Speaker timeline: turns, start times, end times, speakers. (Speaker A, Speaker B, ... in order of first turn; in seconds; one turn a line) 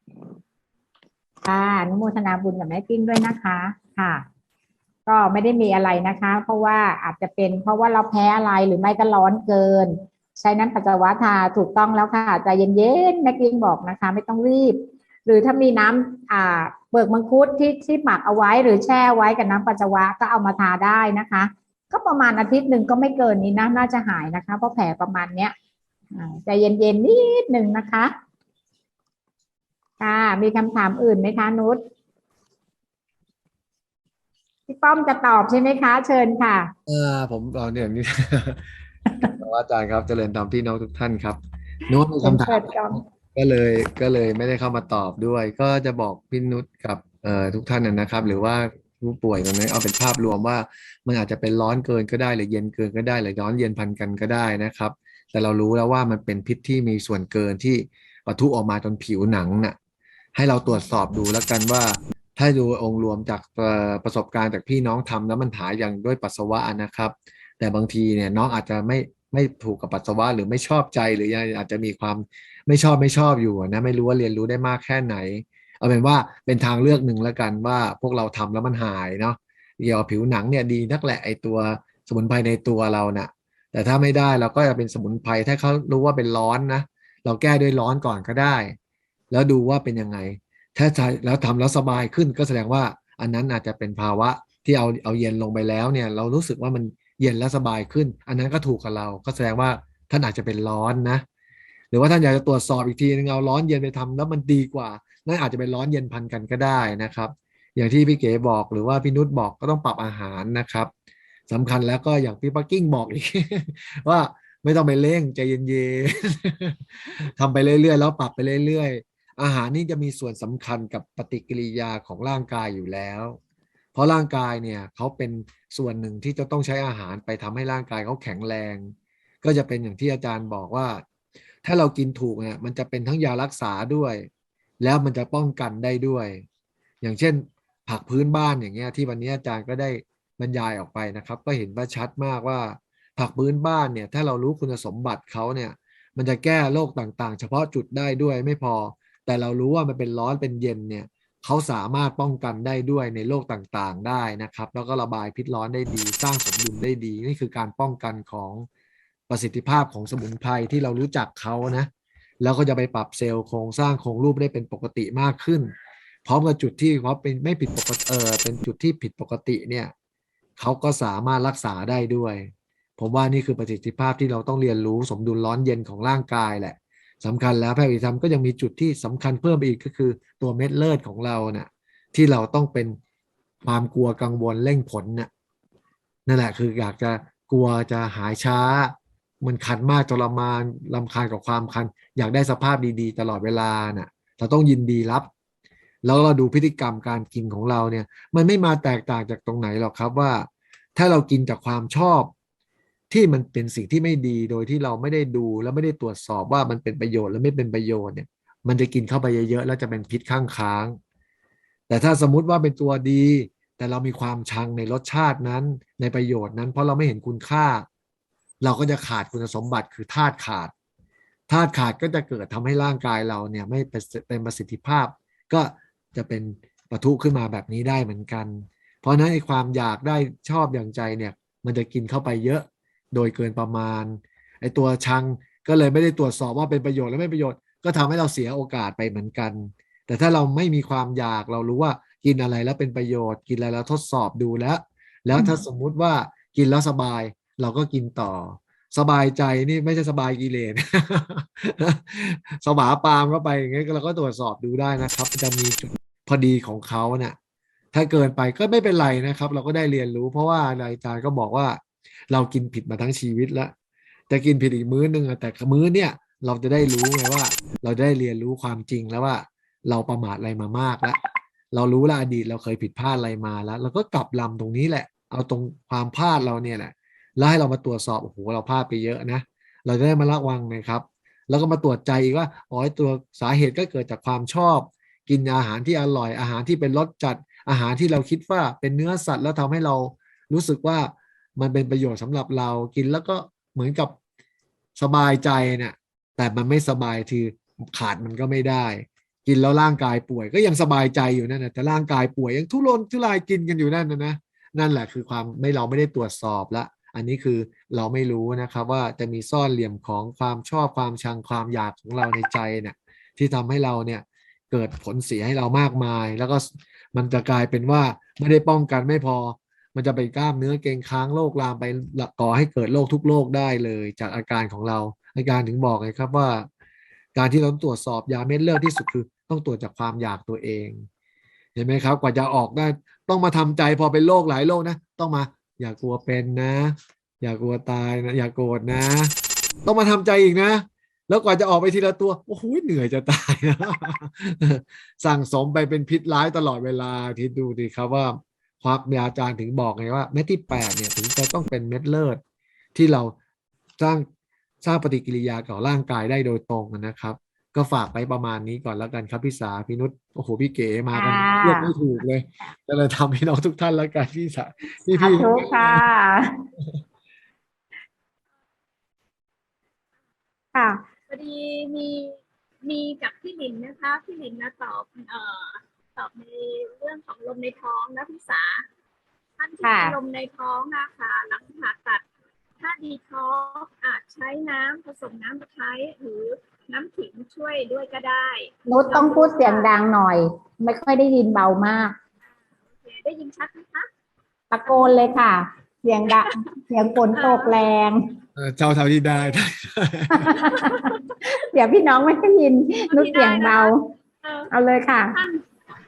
Speaker A: 1.4-4.2
Speaker A: 5.1-25.6
Speaker A: 26.1-28.1
Speaker A: 30.0-31.8
Speaker A: 34.7-36.7
Speaker B: 36.9-38.7
Speaker B: 39.4-59.8
Speaker A: 42.2-43.0
Speaker B: 60.4-88.8
Speaker B: 89.3-101.2
Speaker B: 101.9-110.9
Speaker B: 111.5-123.4
Speaker B: 124.0-131.0
Speaker B: 131.6-134.3
Speaker B: 134.8-136.5
Speaker B: 137.0-158.7
Speaker B: 159.3-161.9
Speaker B: 162.4-165.7
Speaker B: 166.2-169.9
Speaker B: 170.6-183.0
Speaker B: 183.6-185.3
Speaker B: 186.3-195.3
Speaker B: 196.0-202.3
Speaker B: 203.1-211.0
Speaker B: 211.9-217.9
Speaker B: 218.6-220.7
Speaker B: 221.5-257.4
Speaker B: 257.9-263.7
Speaker B: 264.3-271.2
Speaker B: 271.7-294.1
Speaker B: 295.0-326.7
Speaker B: 327.4-331.1
Speaker B: 331.8-352.4
Speaker B: 352.9-353.4
Speaker B: 354.0-354.3
Speaker B: 354.8-366.1
Speaker A: 361.1-361.9
Speaker A: 365.1-366.4
Speaker A: 370.7-371.0
Speaker C: 371.3-378.9
Speaker C: 379.6-382.2
Speaker A: 379.8-380.2
Speaker C: 382.8-389.9
Speaker A: 388.9-392.1
Speaker C: 393.0-394.1
Speaker A: 394.7-398.2
Speaker C: 394.9-395.1
Speaker C: 397.3-397.7
Speaker B: 398.6-400.6
Speaker A: 400.4-404.0
Speaker C: 400.7-401.2
Speaker C: 403.1-403.9
Speaker C: 404.4-404.7
Speaker A: 404.7-405.4
Speaker C: 405.3-405.6